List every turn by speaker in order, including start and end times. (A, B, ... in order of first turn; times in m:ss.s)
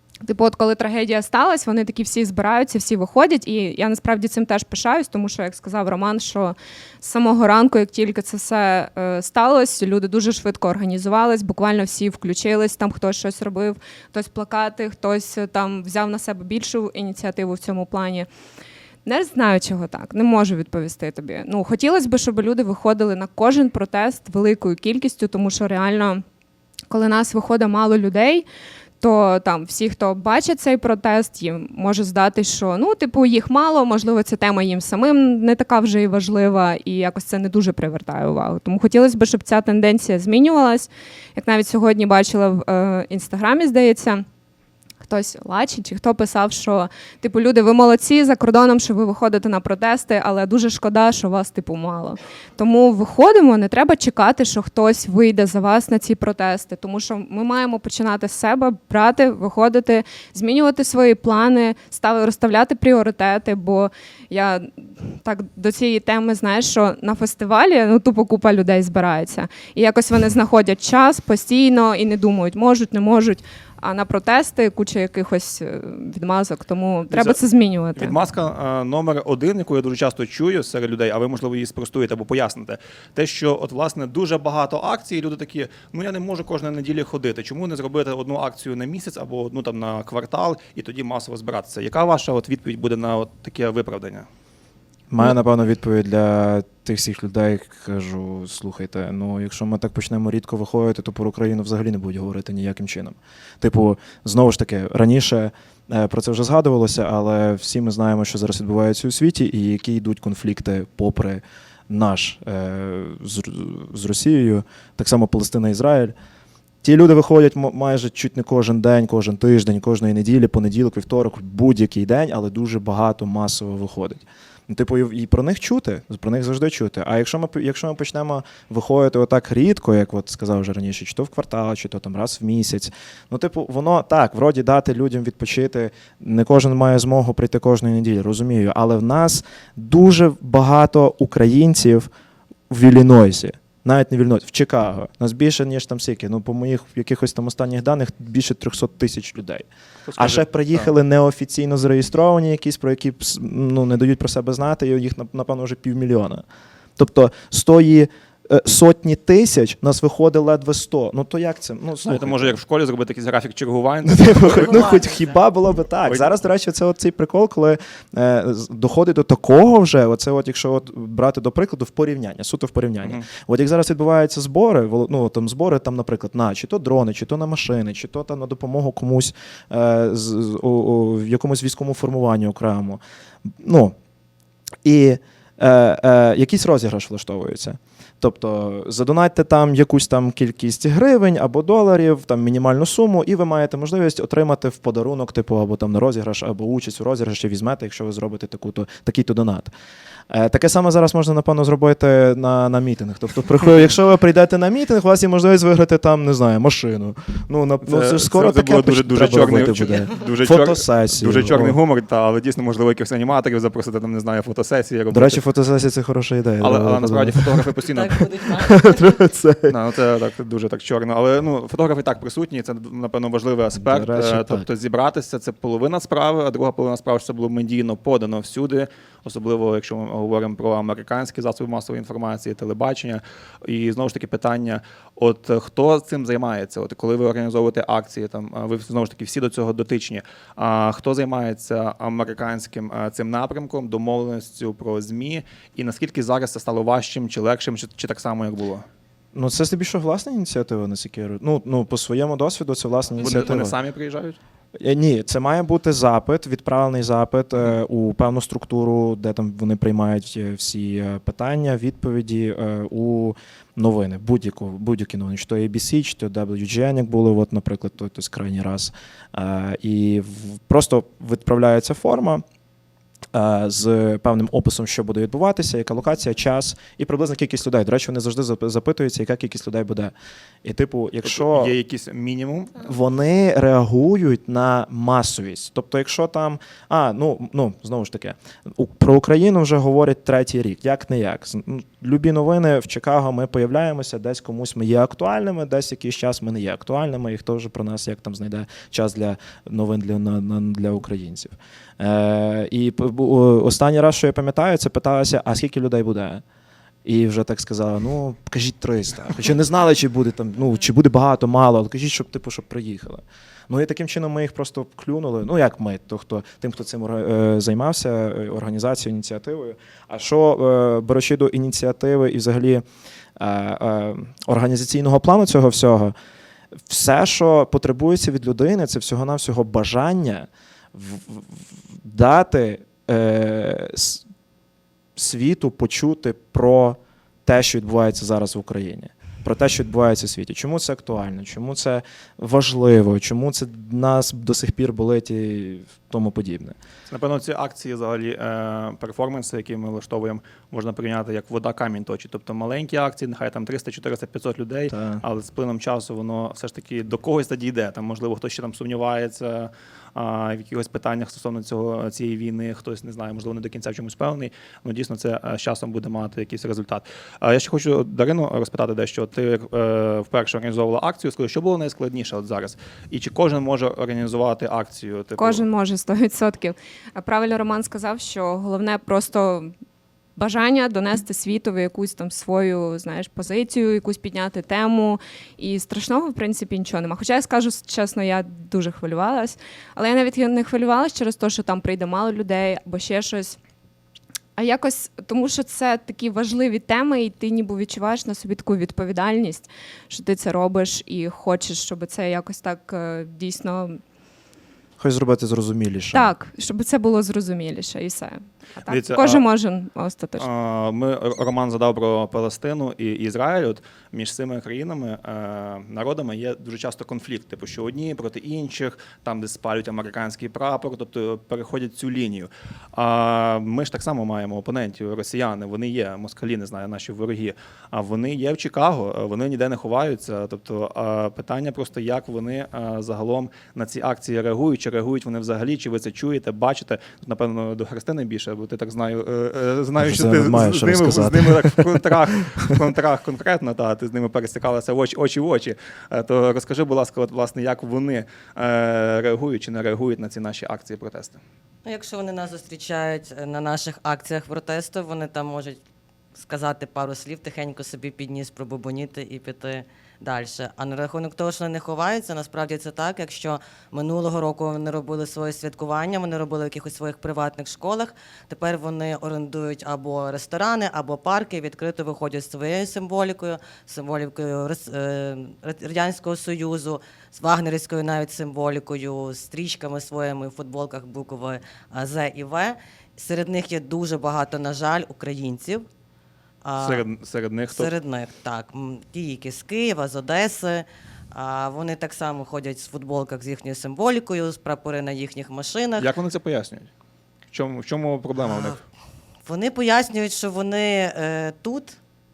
0:00.3-0:18.3 A
0:19.1-0:26.2 A
0:26.9-0:28.4 A
0:29.0-0:44.2 A
0:45.0-1:18.2 A
1:17.1-1:17.4 B
1:18.0-1:34.3 B
1:35.1-1:56.1 C
1:56.8-2:22.1 C
2:22.7-2:29.7 C
2:30.1-2:30.9 B
2:30.2-2:36.4 C
2:37.0-2:42.5 C
2:42.0-2:45.0 B
2:44.0-3:04.0 C
2:44.7-2:45.3 D
2:46.0-2:46.3 B
3:04.8-3:19.7 C
3:20.3-3:31.8 C
3:27.8-3:35.4 B
3:35.1-3:37.7 C
3:36.6-3:38.2 B
3:37.9-3:39.0 D
3:38.6-3:39.8 C
3:39.7-4:08.8 B
3:43.7-3:44.7 C
4:09.3-4:13.8 C
4:13.2-4:14.4 B
4:14.8-4:32.4 C
4:33.3-4:41.7 C
4:41.2-4:42.8 B
4:42.8-5:06.4 C
5:07.0-5:22.8 C
5:23.4-5:26.1 C
5:26.9-5:34.2 C
5:35.2-5:46.8 C
5:47.1-6:15.6 B
5:54.9-5:55.2 C
6:15.4-6:19.7 A
6:20.4-6:33.6 A
6:34.6-6:44.0 A
6:45.0-6:46.3 C
6:46.1-6:50.5 A
6:48.8-6:49.4 B
6:50.4-7:31.4 B
7:20.0-7:22.7 C
7:31.8-7:35.8 D
7:36.4-8:05.9 D
8:06.6-8:07.0 D
8:06.8-8:07.9 B
8:07.7-8:16.1 D
8:16.0-8:16.9 B
8:17.5-8:18.8 B
8:18.4-8:18.8 D
8:19.4-8:22.0 D